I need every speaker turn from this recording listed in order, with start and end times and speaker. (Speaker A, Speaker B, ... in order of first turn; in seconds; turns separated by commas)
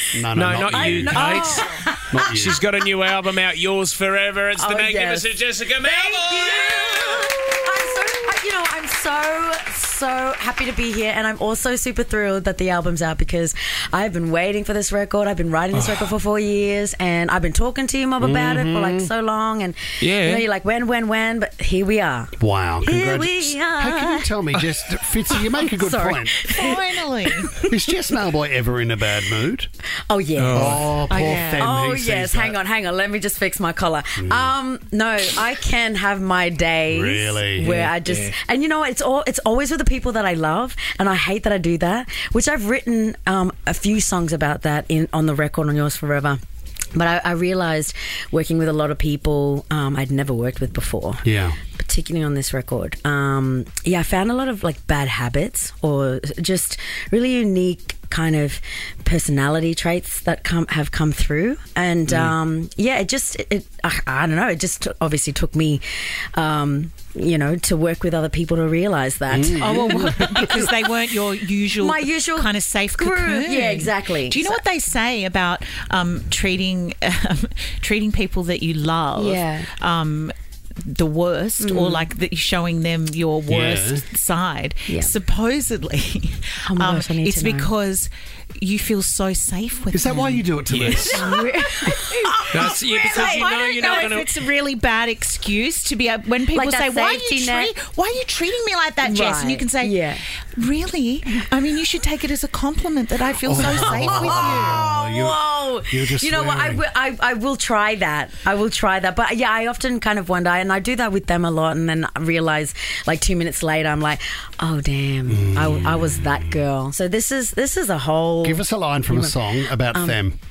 Speaker A: 0.1-1.2, Speaker B: 0.3-1.6, Speaker C: 0.7-2.5, Speaker D: 1.1-1.8, Speaker A: 2.1-2.6, Speaker B: 2.3-7.3, Speaker C: 4.5-24.3, Speaker B: 15.7-16.1, Speaker A: 18.2-19.1, Speaker B: 20.0-20.4, Speaker A: 22.4-26.4, Speaker C: 25.4-27.6, Speaker D: 26.5-27.6, Speaker A: 27.7-29.7, Speaker C: 30.1-46.4, Speaker B: 30.4-31.0, Speaker A: 30.5-32.6, Speaker D: 31.1-31.6, Speaker A: 34.2-34.5, Speaker A: 36.9-37.8, Speaker B: 37.9-38.3, Speaker C: 46.9-70.6, Speaker A: 51.2-51.6, Speaker A: 69.3-70.5, Speaker D: 69.6-90.5, Speaker C: 71.8-74.6, Speaker C: 79.2-79.7, Speaker C: 81.6-82.1, Speaker A: 83.5-84.0, Speaker C: 84.9-85.1, Speaker C: 86.7-87.7, Speaker A: 89.9-91.3, Speaker B: 90.7-91.1, Speaker C: 91.1-94.0, Speaker D: 91.1-100.0, Speaker B: 92.5-94.3, Speaker C: 96.5-97.7, Speaker C: 99.0-100.2, Speaker D: 100.6-104.8, Speaker A: 103.5-106.8, Speaker C: 103.6-120.2, Speaker A: 115.3-116.5, Speaker A: 118.4-120.4